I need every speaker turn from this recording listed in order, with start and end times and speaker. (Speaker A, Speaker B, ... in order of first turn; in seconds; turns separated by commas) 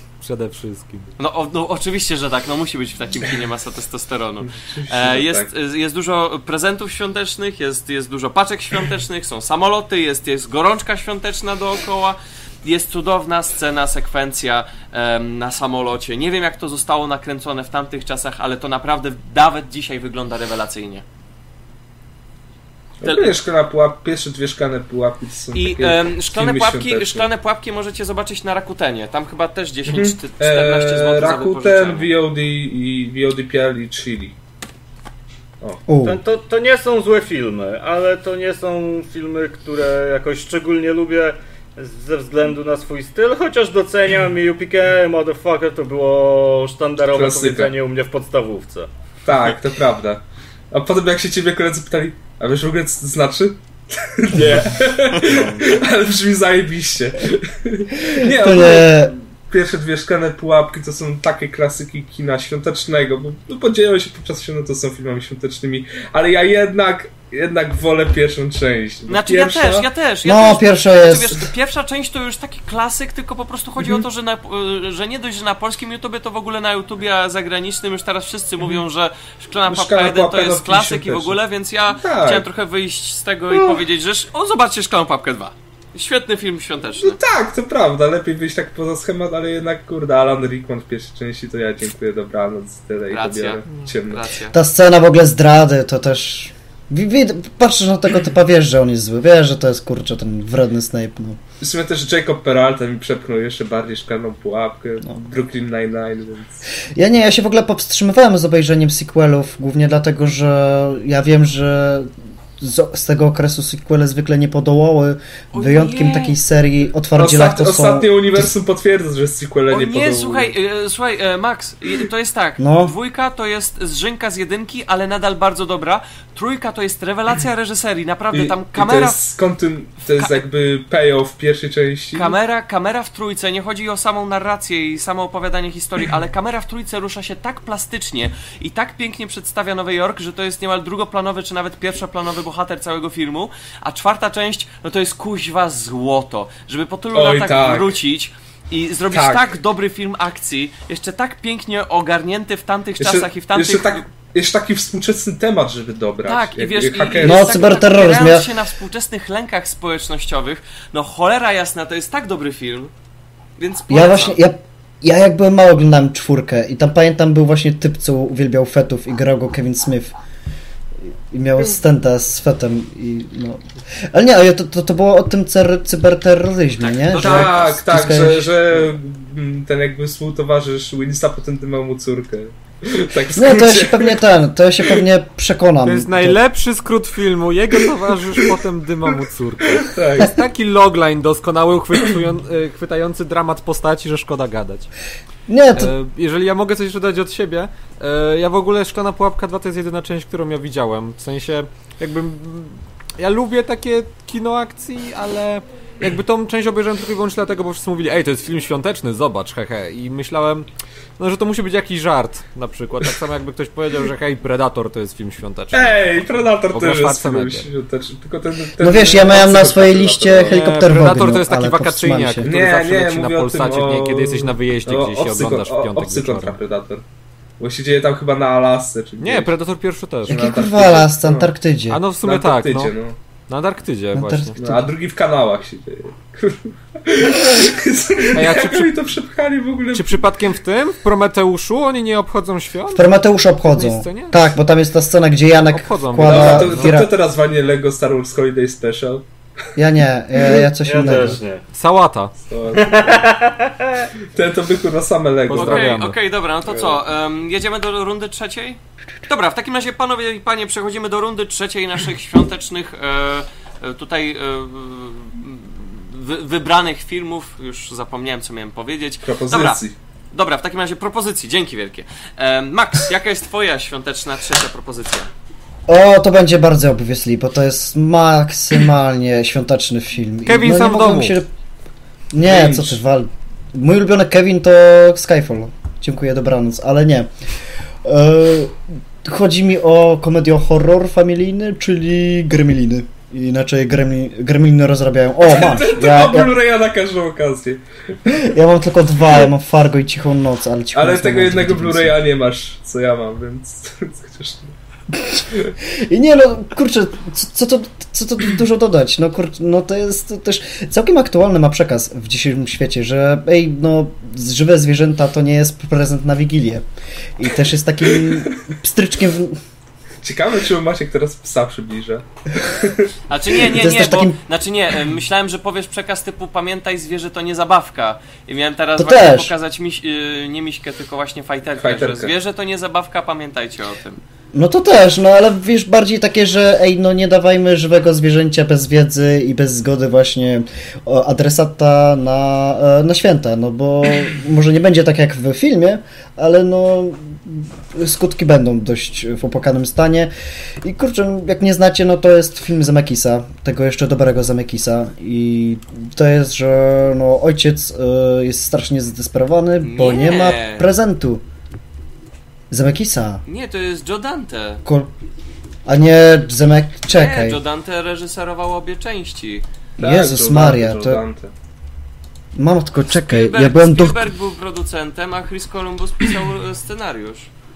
Speaker A: 0.2-1.1, Speaker B: 1.2-21.0, Speaker C: 4.4-5.5, Speaker C: 23.0-27.3, Speaker B: 23.0-23.3, Speaker B: 25.6-32.1, Speaker C: 29.9-34.4, Speaker D: 35.9-36.2, Speaker E: 36.0-48.9, Speaker C: 47.1-47.7, Speaker C: 49.2-69.9, Speaker D: 58.2-59.1, Speaker B: 69.1-87.2, Speaker D: 70.2-71.3, Speaker C: 73.8-74.0, Speaker C: 79.7-81.4, Speaker C: 82.0-82.5, Speaker C: 83.5-83.8, Speaker C: 87.0-94.2, Speaker B: 93.1-94.5, Speaker D: 94.5-101.4, Speaker C: 101.6-106.6, Speaker D: 107.0-118.5, Speaker B: 115.5-116.4, Speaker C: 117.1-120.5, Speaker B: 119.7-129.2, Speaker D: 122.6-122.9, Speaker C: 128.3-132.3, Speaker B: 130.2-130.4, Speaker B: 132.2-154.0, Speaker C: 147.1-147.9, Speaker C: 149.1-149.5, Speaker C: 153.0-157.8, Speaker B: 156.3-162.9, Speaker D: 157.2-158.5, Speaker B: 163.6-164.4, Speaker D: 163.9-170.2, Speaker D: 171.3-178.6, Speaker B: 176.8-177.7, Speaker C: 177.1-184.2, Speaker D: 183.3-186.4, Speaker A: 185.8-194.9, Speaker C: 189.8-190.4, Speaker D: 195.5-195.9, Speaker A: 195.8-210.7, Speaker A: 211.2-217.7, Speaker C: 215.7-220.6, Speaker D: 218.8-222.5, Speaker A: 220.5-226.6, Speaker C: 222.4-227.0, Speaker C: 227.6-229.5, Speaker A: 229.2-230.5, Speaker C: 230.3-231.5, Speaker D: 230.3-232.0, Speaker A: 231.9-232.9, Speaker C: 232.2-233.2, Speaker A: 233.5-234.6, Speaker D: 234.2-234.9, Speaker C: 234.6-240.2, Speaker A: 238.3-238.9, Speaker A: 239.9-244.5, Speaker D: 242.9-247.1, Speaker A: 245.7-247.0, Speaker C: 246.2-249.2, Speaker D: 249.8-251.4, Speaker E: 250.5-251.6, Speaker A: 251.7-252.3, Speaker C: 252.4-253.3, Speaker E: 252.7-254.1, Speaker C: 254.3-255.9, Speaker A: 255.5-256.2, Speaker B: 255.5-269.8, Speaker C: 256.7-257.0, Speaker C: 269.2-269.9, Speaker B: 270.3-275.3, Speaker D: 275.9-281.5, Speaker A: 280.5-281.4, Speaker D: 282.3-287.3, Speaker C: 282.4-283.0, Speaker D: 288.0-296.5, Speaker C: 295.5-298.4, Speaker D: 298.3-302.2, Speaker C: 300.9-304.7, Speaker D: 306.0-316.9, Speaker D: 317.4-319.6, Speaker C: 318.1-318.6, Speaker C: 320.2-323.1, Speaker B: 323.3-334.2, Speaker D: 323.6-324.4, Speaker D: 329.0-329.5, Speaker C: 331.8-332.3, Speaker D: 334.5-350.3, Speaker D: 350.8-361.4, Speaker B: 359.8-360.9, Speaker D: 362.7-363.4, Speaker B: 363.5-364.8, Speaker D: 364.9-365.1, Speaker D: 365.9-367.6, Speaker B: 367.1-369.6, Speaker C: 370.0-371.5, Speaker D: 370.0-371.2, Speaker D: 372.6-374.2, Speaker B: 373.1-377.5